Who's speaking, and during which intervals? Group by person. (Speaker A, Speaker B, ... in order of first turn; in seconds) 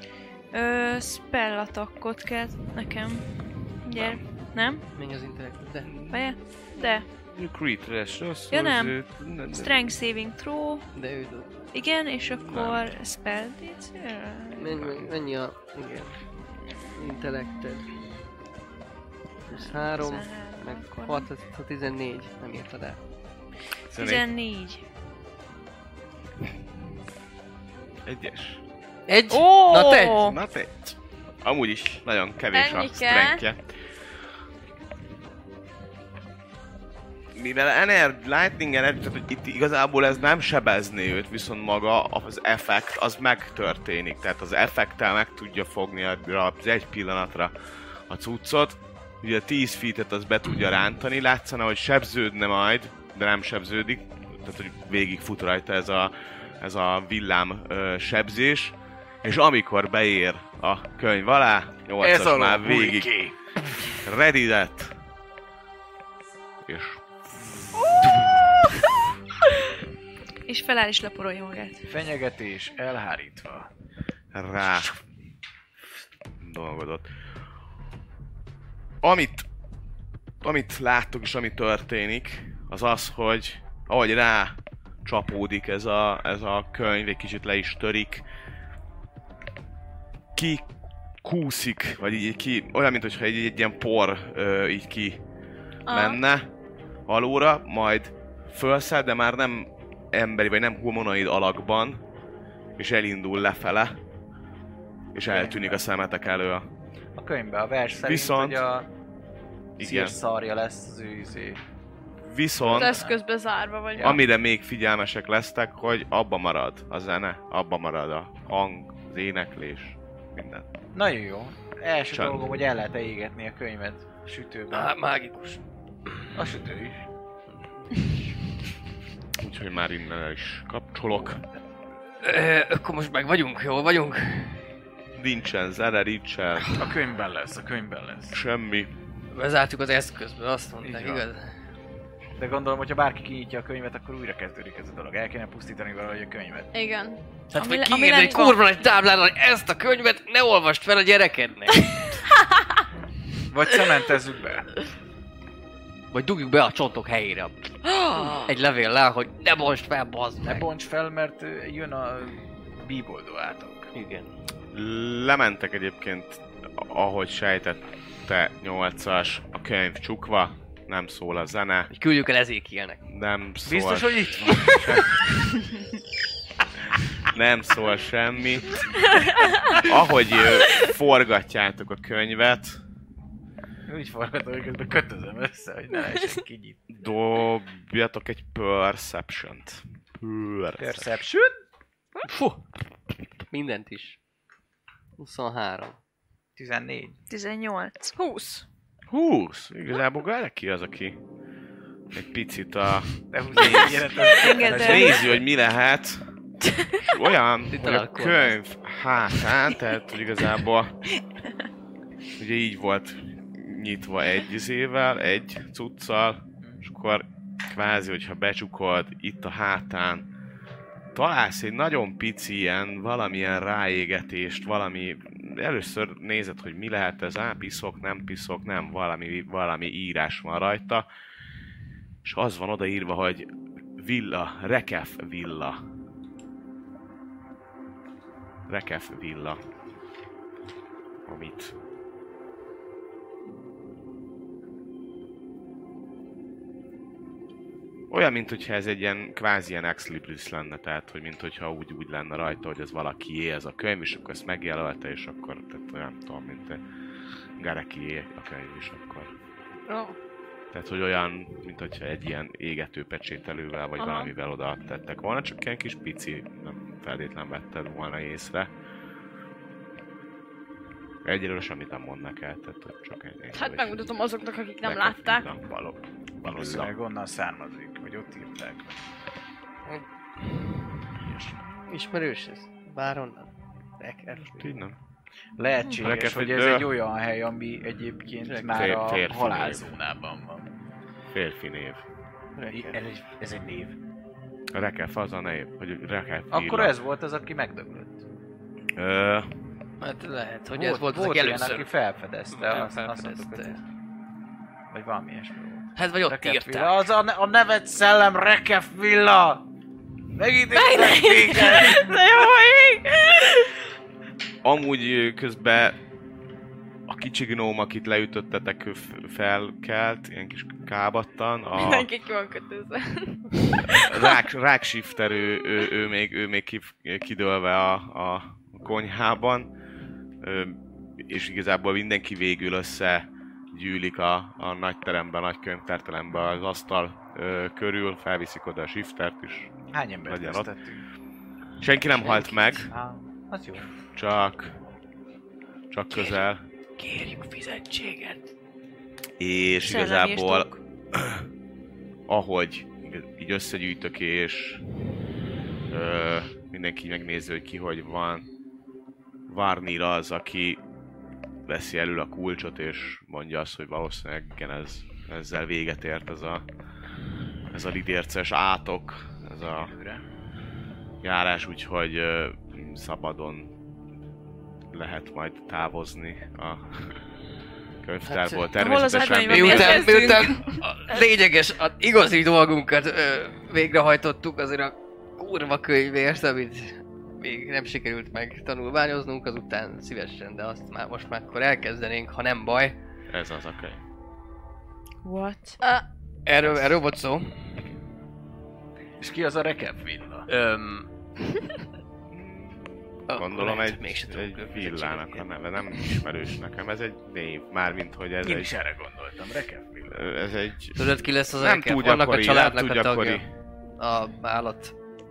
Speaker A: 0.5-4.8, 6.1-7.0, 8.5-9.0, 9.5-10.8, 11.7-14.9, 17.4-18.2, 19.5-21.3, 23.9-24.8, 29.3-30.4, 70.5-71.8, 147.5-148.6, 197.3-198.2, 203.6-205.3, 349.8-350.8, 378.8-380.8, 395.2-395.8
Speaker B: 3.9-4.2, 5.9-6.2, 7.2-9.8, 12.4-12.9, 14.8-15.1, 23.9-24.2, 28.1-28.6, 30.2-33.6, 37.3-47.5, 48.1-63.1, 64.0-64.9, 66.6-68.5, 74.3-75.0, 76.4-77.1, 79.0-79.5, 80.4-88.2, 90.3-90.6, 91.2-95.2, 95.9-96.5, 97.1-102.0, 102.8-104.0, 105.1-106.7, 108.0-108.6, 109.8-110.2, 112.2-113.0, 114.0-120.7, 122.1-122.6, 129.4-131.4, 135.1-136.9, 138.3-138.9, 164.7-171.9, 173.1-175.2, 177.2-178.8, 179.7-182.8, 186.9-191.2, 199.1-201.2, 202.1-206.2, 207.0-210.9, 212.4-220.2, 221.1-231.1, 232.2-235.8, 238.7-239.6, 241.3-241.7, 248.1-256.8, 257.6-259.3, 260.7-268.7, 271.2-274.1, 274.8-276.9, 284.5-284.9, 286.0-286.9, 288.7-289.9, 291.3-292.0, 294.7-296.9, 298.9-299.5, 314.6-316.0, 317.1-322.1, 323.9-329.7, 330.4-339.7, 340.2-340.7, 341.8-342.9, 344.1-344.8, 345.9-346.6, 349.4-351.4, 352.3-354.8, 355.9-358.4, 359.5-360.8, 361.6-366.6, 367.7-369.9, 371.2-373.7, 374.9-377.1, 378.0-380.1, 393.3-394.0, 402.3-408.7, 410.1-413.5
Speaker C: 4.9-5.9, 10.9-11.5, 14.6-16.2, 16.9-17.9, 19.5-23.0, 29.1-30.2, 124.7-126.3, 132.2-134.7, 139.3-141.5, 147.5-152.2, 156.1-157.8, 158.4-160.7, 163.9-164.3, 171.9-173.0, 192.2-192.6, 193.5-194.2, 195.2-196.0, 207.7-208.6, 281.9-284.7, 288.4-289.0, 292.6-293.0, 300.0-301.9, 302.5-303.8, 305.9-307.0, 342.2-342.9, 346.1-346.4, 347.0-348.5, 378.3-378.7, 379.5-393.0, 396.4-397.9, 400.5-401.1, 403.3-406.1, 410.9-413.4, 414.0-414.9
Speaker D: 32.5-33.4, 95.9-96.2, 112.7-114.2, 146.7-147.2, 179.0-179.8, 198.2-198.6, 259.9-260.1, 264.0-264.3, 273.5-275.4, 310.7-313.7, 321.8-324.4, 379.3-380.3
Speaker E: 62.0-63.3, 71.8-73.7, 105.2-105.8, 107.2-108.9, 109.8-111.6, 112.6-113.2, 114.0-114.2, 120.9-124.9, 126.3-127.0, 136.7-138.4, 140.8-141.2, 142.3-146.7, 153.5-154.7, 160.4-163.9, 173.7-175.1, 183.9-186.8, 190.8-191.5, 196.6-197.2, 203.3-205.4, 276.4-279.0, 285.6-290.7, 292.7-294.0, 296.5-298.2, 300.7-303.8, 304.9-309.6, 310.3-312.2, 339.9-341.0, 342.9-343.9, 369.6-370.2, 399.2-400.5, 408.4-410.3